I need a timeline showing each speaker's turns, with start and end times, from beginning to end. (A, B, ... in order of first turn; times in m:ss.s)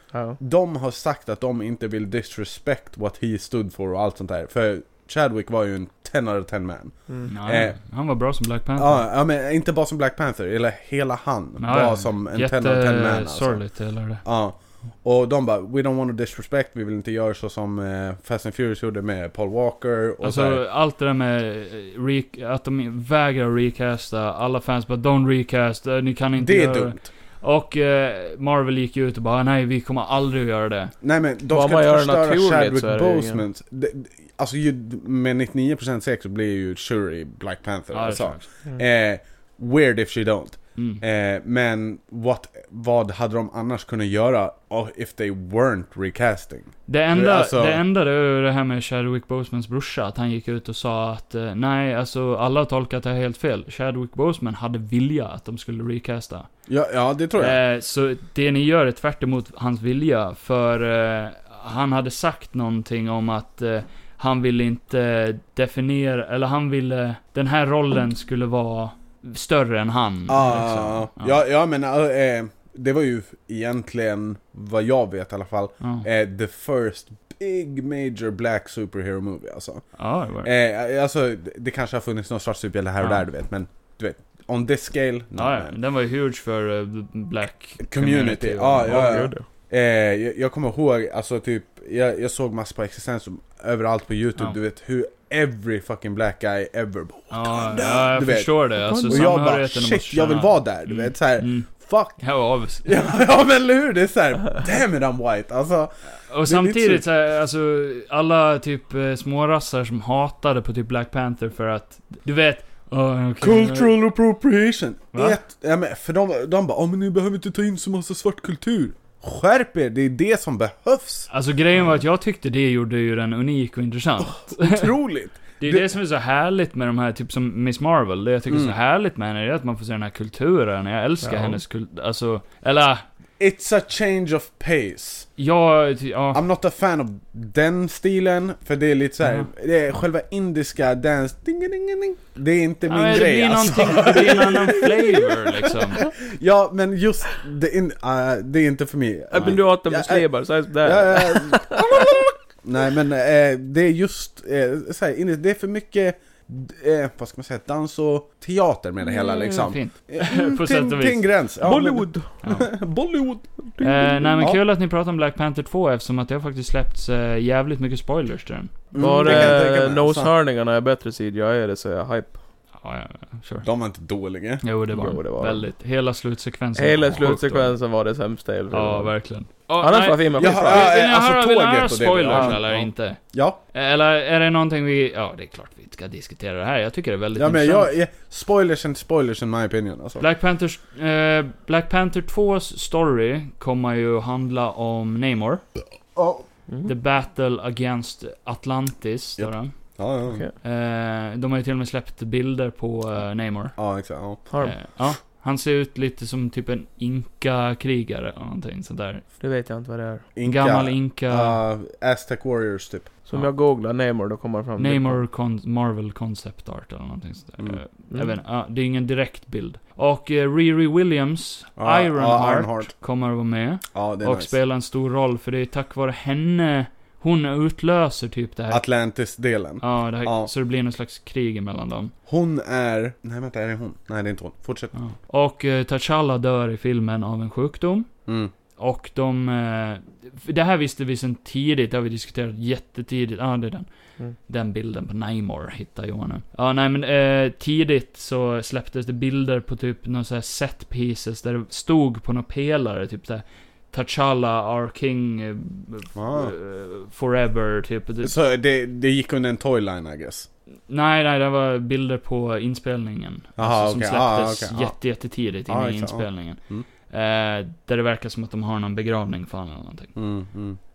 0:00.1-0:00.4 A
0:00.4-0:07.8 B
0:07.3-0:09.1 C
0:08.8-0:13.6 B
0:11.6-0:14.2 C
0:14.2-0:20.6 B
0:20.2-0:30.9 C
0:26.4-0:27.1 B
0:31.0-0:47.8 B
0:31.5-0:33.4 A
0:37.9-0:38.5 C
0:40.8-0:41.0 C
0:46.9-0:56.5 C
0:56.7-0:57.6 B
0:57.4-1:11.4 C
1:10.3-1:19.9 B
1:15.8-1:16.1 C
1:20.0-1:20.5 C
1:20.4-1:25.8 B
1:23.0-1:23.2 C
1:25.4-1:29.3 C
1:27.8-1:42.3 B
1:28.8-1:29.4 A
1:37.3-1:43.0 C
1:38.8-1:39.3 A
1:42.8-1:45.9 B
1:46.3-1:54.0 C
1:46.4-1:47.0 B
1:53.4-2:01.3 B
1:55.1-1:55.4 C
2:01.3-2:04.9 C
2:04.2-2:05.9 B
2:05.6-2:13.0 C
2:08.5-2:08.8 B
2:11.2-2:11.6 A
2:13.4-2:15.3 B
2:15.4-2:16.4 C
2:16.3-2:30.3 B
2:19.2-2:19.5 C
2:22.9-2:26.0 C
2:29.3-2:32.2 A
2:30.8-2:43.6 B
2:39.0-2:41.3 C
2:41.6-2:42.4 A
2:42.4-2:42.7 C
2:43.8-2:44.3 A
2:43.8-2:49.6 C
2:48.9-2:50.3 B
2:49.0-2:52.4 A
2:52.8-2:53.7 C
2:53.6-2:54.6 B
2:54.6-2:57.8 C
2:54.9-2:55.7 A
2:56.8-2:59.2 A
2:58.7-3:03.2 C
2:59.8-3:00.9 A
3:00.4-3:03.6 B
3:02.3-3:02.6 A
3:03.7-3:07.9 C
3:07.4-3:10.2 B
3:10.2-3:15.6 C
3:16.2-3:16.5 B
3:16.8-3:19.8 C
3:19.4-3:20.4 B
3:20.3-3:20.5 A
3:20.6-3:23.8 C
3:23.8-3:24.4 B
3:24.5-3:24.8 A
3:24.6-3:29.2 C
3:29.4-3:30.3 A
3:30.4-3:33.1 B
3:30.4-3:31.6 C
3:33.3-3:35.2 A
3:34.8-3:48.8 C
3:41.8-3:42.9 B
3:43.9-3:44.5 B
3:48.7-3:50.5 B
3:49.8-3:52.1 C
3:52.3-3:54.9 B
3:54.9-3:58.1 C
3:58.3-3:58.5 B
3:58.8-4:18.4 C
4:16.2-4:16.5 B
4:18.2-4:20.5 B
4:20.9-4:30.2 C
4:23.6-4:25.0 B
4:25.7-4:26.9 B
4:30.2-4:30.8 B